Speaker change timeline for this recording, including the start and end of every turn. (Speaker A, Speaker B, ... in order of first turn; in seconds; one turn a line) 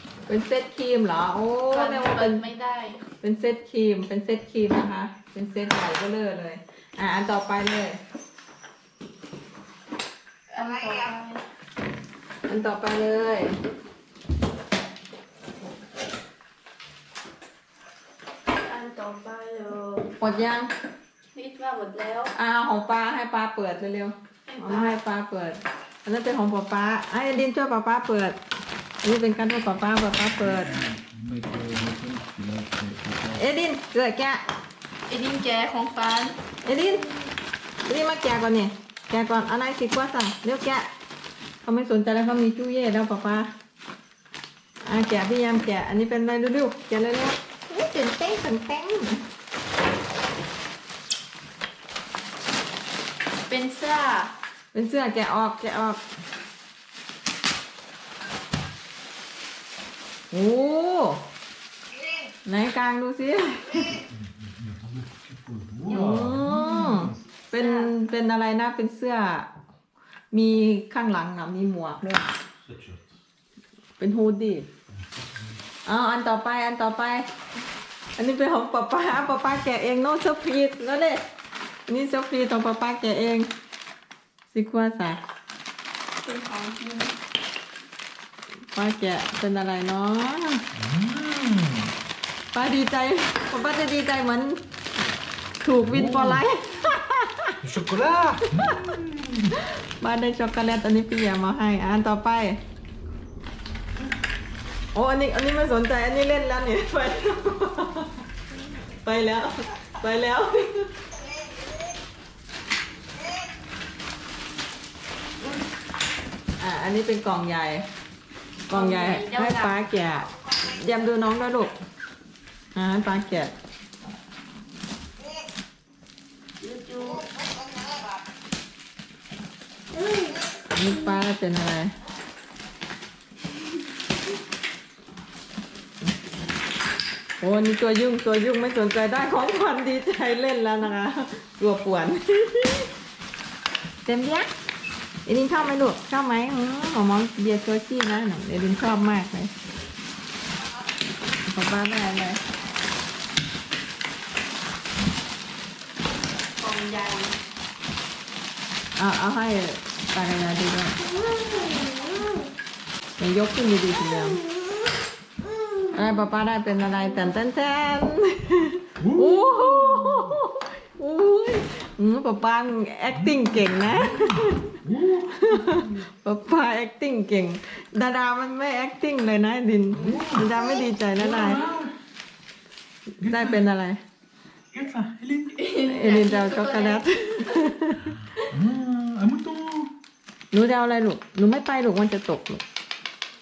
Speaker A: 0.3-2.4
Speaker B: 1.7-3.0
Speaker A: 3.2-8.0
Speaker B: 10.5-11.4
Speaker A: 12.5-13.6
Speaker B: 18.5-20.1
Speaker A: 20.2-20.7
Speaker B: 21.3-22.3
Speaker A: 22.3-28.4
Speaker B: 24.5-25.0
Speaker A: 29.0-30.8
Speaker C: 30.4-33.4
Speaker A: 33.4-34.4
Speaker B: 35.1-36.4
Speaker A: 36.6-37.1
Speaker A: 37.9-40.9
Speaker A: 41.6-43.5
Speaker A: 44.8-49.2
Speaker B: 53.5-54.3
Speaker A: 54.7-56.0
Speaker A: 60.3-61.2
Speaker A: 62.5-64.0
Speaker C: 64.1-67.2
Speaker A: 65.9-69.5
Speaker B: 67.5-67.9
Speaker A: 70.3-72.3
Speaker C: 72.6-73.0
Speaker A: 74.0-74.7
Speaker C: 74.9-75.6
Speaker A: 75.9-77.3
Speaker A: 78.2-81.2
Speaker A: 81.9-83.5
Speaker A: 84.5-85.2
Speaker B: 86.2-87.2
Speaker A: 88.7-90.6
Speaker C: 90.7-91.9
Speaker A: 92.5-94.6
Speaker A: 95.6-97.6
Speaker C: 95.8-96.5
Speaker C: 97.6-99.5
Speaker A: 98.5-98.9
Speaker A: 99.5-102.6
Speaker A: 104.9-108.2
Speaker A: 109.0-110.9
Speaker A: 116.6-117.9
Speaker A: 118.7-121.7
Speaker B: 118.7-119.8
Speaker A: 122.8-123.5
Speaker B: 126.6-127.3
Speaker B: 130.0-130.4
Speaker A: 130.7-131.9
Speaker A: 137.4-142.9
Speaker A: 144.1-144.5
Speaker A: 145.3-149.5
Speaker A: 151.5-152.4
Speaker B: 156.6-157.3
Speaker A: 159.0-161.0
Speaker B: 161.3-162.1
Speaker A: 163.2-164.4
Speaker A: 165.9-174.8
Speaker C: 169.0-170.4
Speaker C: 173.1-176.0
Speaker A: 175.3-181.7
Speaker C: 179.9-181.9
Speaker A: 183.2-184.0
Speaker C: 183.2-183.6
Speaker C: 184.7-185.6
Speaker B: 185.6-187.7
Speaker A: 185.9-188.2
Speaker C: 188.5-189.9
Speaker A: 190.5-192.6